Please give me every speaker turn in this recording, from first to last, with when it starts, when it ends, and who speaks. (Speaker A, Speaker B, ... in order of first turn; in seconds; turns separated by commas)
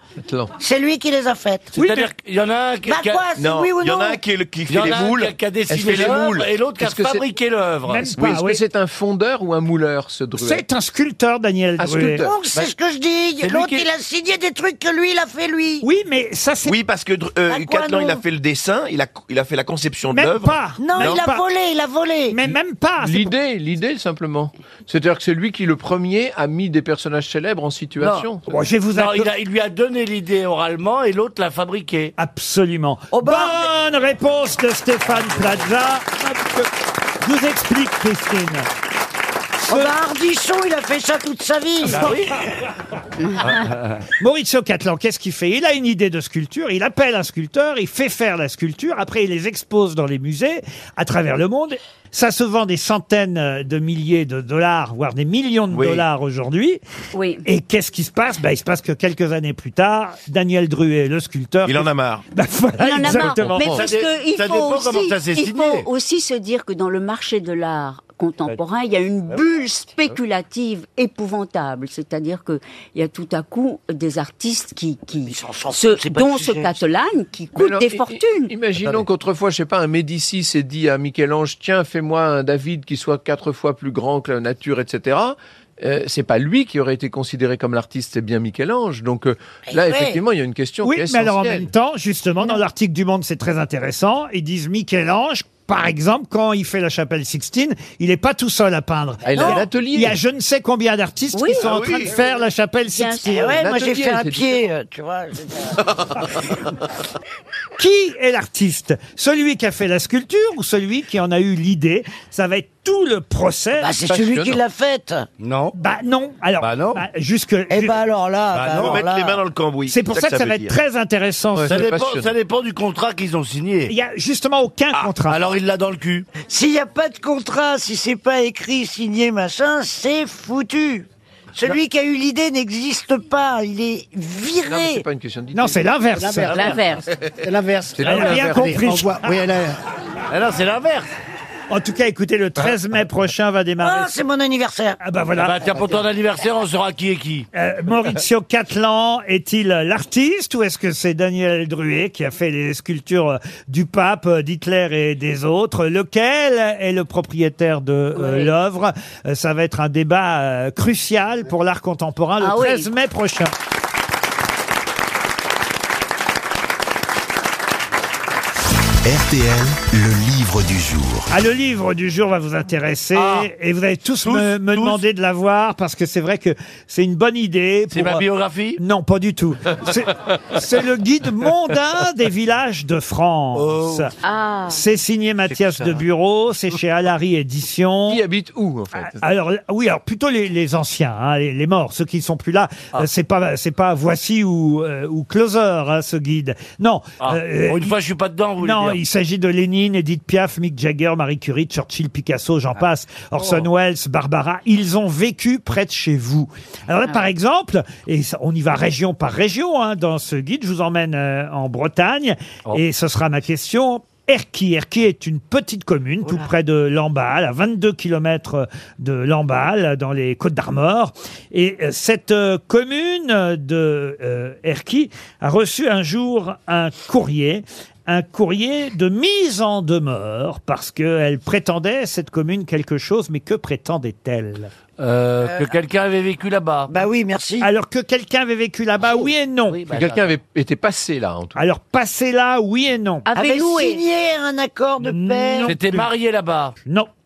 Speaker A: 0.2-0.5, Speaker B: 0.6-1.8, Speaker C: 1.7-3.3, Speaker D: 1.8-2.1, Speaker B: 2.9-4.2, Speaker E: 3.4-6.5, Speaker C: 4.7-8.1, Speaker A: 5.7-6.2, Speaker A: 6.8-7.2, Speaker D: 7.9-8.6, Speaker A: 8.2-10.6, Speaker D: 10.4-12.2, Speaker A: 11.8-12.3, Speaker B: 12.2-15.8, Speaker A: 13.4-13.7, Speaker D: 15.8-16.8, Speaker E: 16.6-21.2, Speaker B: 17.5-18.2, Speaker D: 20.1-21.4, Speaker B: 20.8-22.4, Speaker D: 22.3-23.3, Speaker A: 23.0-28.4, Speaker C: 28.0-28.3, Speaker D: 28.5-29.3, Speaker C: 28.9-32.1, Speaker D: 32.2-36.7, Speaker B: 33.1-33.6, Speaker D: 37.2-38.7, Speaker B: 39.6-42.3, Speaker D: 39.7-39.9, Speaker D: 44.2-56.8, Speaker E: 55.7-56.0, Speaker F: 57.1-57.4, Speaker D: 57.4-63.8, Speaker E: 61.6-62.2, Speaker F: 62.8-78.5, Speaker A: 63.3-63.8, Speaker C: 63.6-65.9, Speaker B: 75.2-76.8, Speaker A: 77.5-91.7, Speaker B: 89.7-90.2, Speaker D: 90.8-103.6, Speaker A: 99.2-100.2, Speaker F: 101.3-101.7, Speaker E: 101.6-102.1, Speaker F: 102.9-103.5, Speaker B: 103.2-105.8, Speaker A: 103.5-104.6, Speaker D: 107.8-113.9, Speaker B: 113.8-115.3, Speaker A: 114.1-114.6, Speaker C: 115.4-115.7, Speaker D: 115.8-118.0, Speaker C: 116.6-117.0, Speaker B: 117.7-119.4, Speaker C: 118.5-119.0, Speaker E: 118.8-120.7, Speaker D: 119.9-121.8, Speaker A: 121.5-122.3, Speaker C: 121.7-123.9, Speaker D: 123.9-125.4, Speaker C: 124.9-126.3, Speaker B: 126.3-135.0, Speaker A: 134.6-135.8, Speaker D: 135.5-136.7, Speaker G: 136.2-136.8, Speaker F: 136.5-137.1, Speaker G: 137.4-139.8, Speaker A: 137.9-138.8, Speaker D: 138.0-139.3, Speaker C: 140.3-141.1, Speaker D: 141.7-144.1, Speaker B: 143.8-145.0, Speaker D: 145.0-145.7, Speaker C: 145.3-147.5, Speaker D: 147.5-163.5, Speaker F: 158.1-158.5, Speaker F: 162.4-162.9, Speaker H: 169.0-171.3, Speaker D: 171.3-178.2, Speaker C: 173.1-173.5, Speaker C: 174.2-175.0, Speaker C: 177.9-178.8, Speaker D: 178.8-184.1, Speaker C: 183.5-184.1, Speaker F: 184.2-184.8, Speaker D: 184.7-188.2, Speaker A: 188.1-189.2, Speaker D: 189.1-197.9, Speaker C: 197.2-199.0, Speaker D: 198.6-234.7, Speaker C: 203.4-203.7, Speaker C: 235.0-236.9, Speaker B: 235.4-235.7, Speaker B: 236.9-237.7, Speaker D: 237.6-239.8, Speaker C: 239.1-240.3, Speaker A: 239.9-241.6, Speaker D: 241.6-243.3, Speaker F: 243.2-244.0, Speaker B: 243.3-245.7, Speaker D: 245.0-246.1, Speaker C: 245.6-246.8, Speaker D: 246.8-247.1